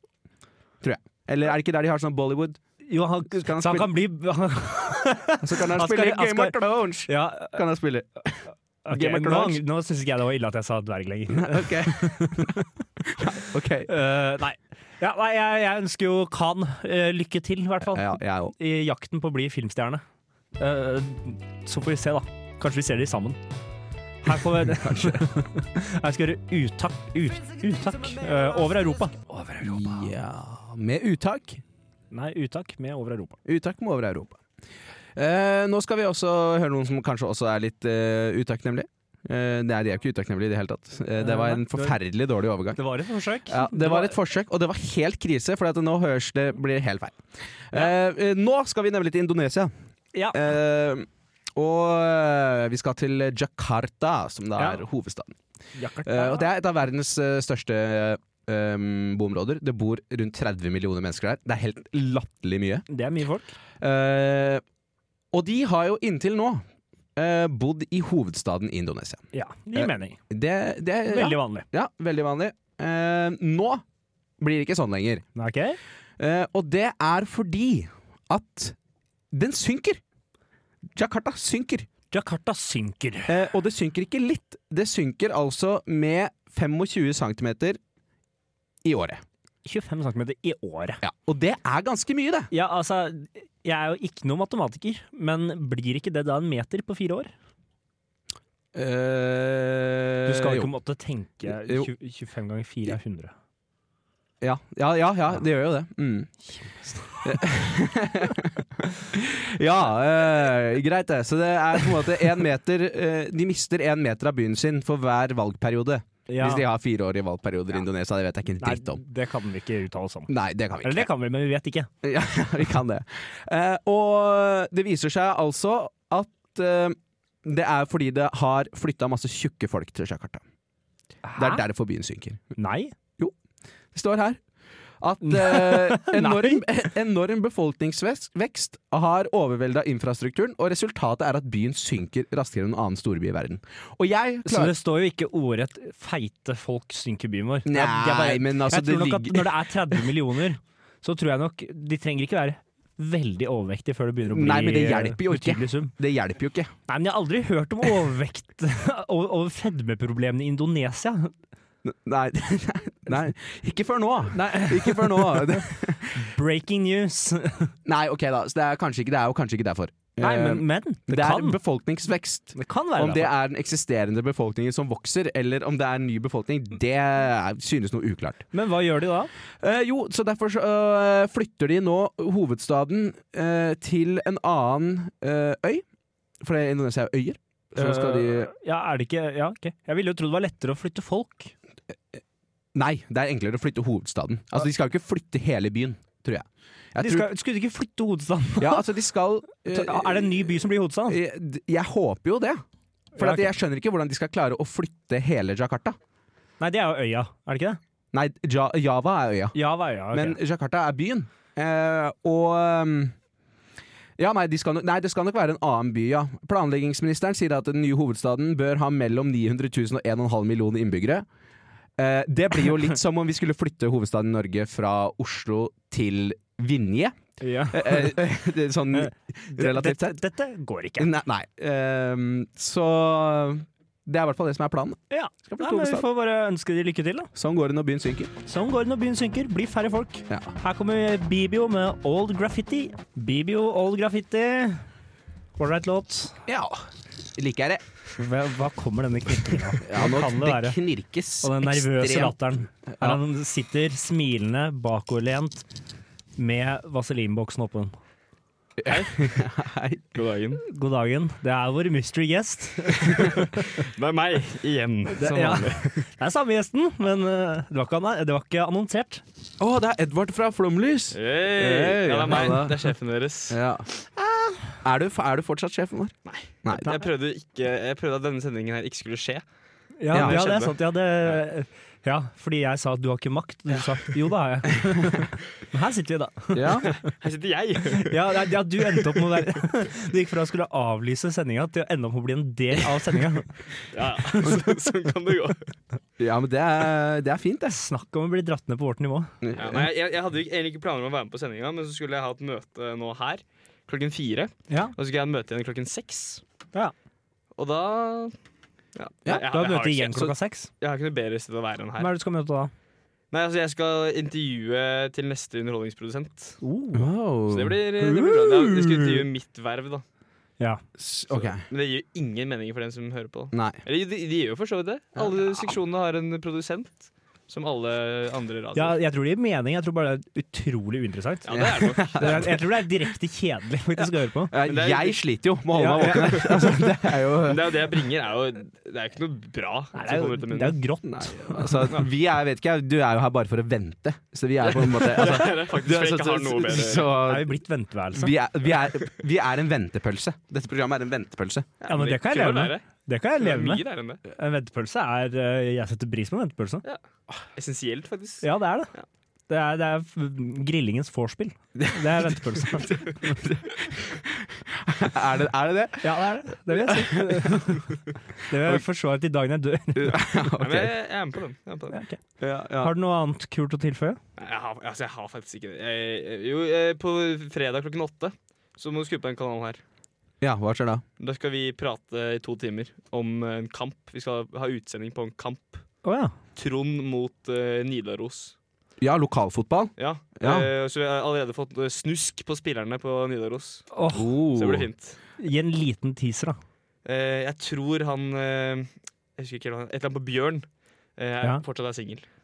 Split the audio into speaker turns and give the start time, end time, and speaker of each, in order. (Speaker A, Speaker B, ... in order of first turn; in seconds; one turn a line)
Speaker A: 0.8-2.6
Speaker B: 2.9-7.6
Speaker A: 3.4-3.9
Speaker A: 5.4-9.6
Speaker B: 8.8-12.6
Speaker A: 11.3-13.9
Speaker B: 13.9-20.0
Speaker A: 17.9-18.6
Speaker B: 20.6-23.4
Speaker B: 24.2-30.1
Speaker A: 24.7-25.4
Speaker A: 29.6-31.6
Speaker B: 32.1-33.4
Speaker A: 33.5-34.4
Speaker A: 35.2-42.8
Speaker B: 41.2-42.0
Speaker B: 42.8-44.1
Speaker A: 43.5-49.7
Speaker A: 50.3-55.4
Speaker B: 55.8-56.5
Speaker A: 56.0-62.9
Speaker B: 62.9-63.5
Speaker A: 63.8-64.6
Speaker A: 65.3-66.6
Speaker A: 67.2-73.8
Speaker B: 69.3-70.2
Speaker B: 71.1-71.7
Speaker A: 74.4-75.2
Speaker B: 75.3-75.8
Speaker A: 76.2-78.8
Speaker A: 79.3-80.0
Speaker A: 81.0-81.9
Speaker B: 82.1-83.4
Speaker A: 83.3-87.8
Speaker A: 88.8-89.2
Speaker B: 89.7-91.0
Speaker A: 91.0-92.5
Speaker B: 92.5-97.3
Speaker A: 98.7-100.7
Speaker B: 100.2-103.3
Speaker A: 101.5-101.9
Speaker A: 104.4-106.4
Speaker B: 106.5-107.2
Speaker A: 107.2-119.0
Speaker B: 116.3-116.7
Speaker B: 118.6-121.9
Speaker A: 120.3-121.1
Speaker A: 122.0-130.4
Speaker B: 131.2-131.6
Speaker A: 131.4-132.4
Speaker B: 132.6-132.9
Speaker A: 133.9-134.4
Speaker A: 135.0-144.7
Speaker B: 135.2-136.6
Speaker B: 144.5-155.9
Speaker A: 147.7-150.0
Speaker A: 154.3-156.7
Speaker B: 156.9-161.3
Speaker A: 161.8-166.3
Speaker B: 164.3-167.7
Speaker A: 167.8-178.4
Speaker B: 170.2-171.6
Speaker B: 172.6-173.3
Speaker B: 178.5-179.3
Speaker A: 179.6-185.8
Speaker A: 186.4-188.5
Speaker B: 187.8-191.5
Speaker A: 192.8-197.3
Speaker B: 197.0-198.8
Speaker A: 198.6-200.5
Speaker B: 199.7-201.2
Speaker A: 201.1-202.6
Speaker B: 203.2-203.5
Speaker A: 203.2-206.0
Speaker B: 206.6-207.8
Speaker A: 208.1-209.6
Speaker B: 209.5-210.4
Speaker A: 210.1-213.2
Speaker A: 214.2-221.3
Speaker A: 222.0-227.2
Speaker B: 227.4-228.2
Speaker A: 227.7-230.2
Speaker B: 228.9-231.1
Speaker A: 231.0-236.1
Speaker B: 235.1-237.3
Speaker A: 237.3-238.3
Speaker B: 238.5-244.8
Speaker B: 245.6-246.4
Speaker A: 246.5-246.8
Speaker A: 247.3-247.8
Speaker B: 248.2-250.8
Speaker A: 249.8-253.2
Speaker B: 251.4-255.7
Speaker B: 256.4-257.9
Speaker A: 258.8-260.1
Speaker C: 258.9-259.1
Speaker C: 260.1-260.6
Speaker B: 260.6-263.7
Speaker C: 263.2-266.0
Speaker B: 265.1-269.2
Speaker A: 269.6-272.9
Speaker C: 271.1-273.6
Speaker A: 273.5-273.9
Speaker A: 274.8-277.0
Speaker C: 276.3-279.4
Speaker B: 280.0-287.0
Speaker C: 280.1-281.4
Speaker A: 280.1-280.4
Speaker A: 286.5-286.9
Speaker C: 286.9-288.2
Speaker B: 288.0-293.5
Speaker C: 293.9-295.7
Speaker B: 294.2-294.6
Speaker A: 296.2-297.8
Speaker B: 297.7-299.3
Speaker A: 299.4-299.9
Speaker C: 299.6-306.4
Speaker B: 304.7-304.9
Speaker C: 307.6-308.3
Speaker C: 309.0-312.1
Speaker B: 309.3-310.7
Speaker B: 312.0-312.7
Speaker C: 313.3-316.6
Speaker B: 316.6-317.1
Speaker A: 316.9-317.8
Speaker C: 317.5-320.0
Speaker B: 318.0-319.2
Speaker A: 321.0-321.6
Speaker C: 321.3-329.0
Speaker A: 323.5-323.8
Speaker B: 328.8-334.5
Speaker C: 331.4-332.5
Speaker A: 331.5-332.6
Speaker A: 334.5-337.8
Speaker C: 334.6-335.2
Speaker B: 335.7-336.8
Speaker C: 336.0-336.5
Speaker C: 337.4-340.8
Speaker B: 339.9-341.9
Speaker A: 341.1-347.6
Speaker C: 344.6-347.1
Speaker B: 347.2-348.3
Speaker A: 348.1-351.7
Speaker C: 351.8-352.9
Speaker B: 351.9-356.8
Speaker C: 353.4-354.2
Speaker C: 357.6-359.1
Speaker B: 358.4-358.9
Speaker B: 359.5-363.4
Speaker A: 361.8-367.7
Speaker B: 366.0-367.9
Speaker B: 368.5-370.3
Speaker A: 369.9-370.9
Speaker C: 370.5-372.0
Speaker B: 371.9-372.2
Speaker A: 372.4-372.9
Speaker B: 372.8-374.2
Speaker C: 374.4-379.8
Speaker A: 380.4-381.0
Speaker C: 381.2-385.8
Speaker B: 386.0-386.3
Speaker C: 386.6-388.6
Speaker A: 389.0-390.7
Speaker C: 390.0-393.9
Speaker B: 393.9-394.4
Speaker A: 394.1-394.9
Speaker C: 394.5-395.2
Speaker B: 395.4-396.6
Speaker C: 397.1-400.7
Speaker C: 401.2-402.2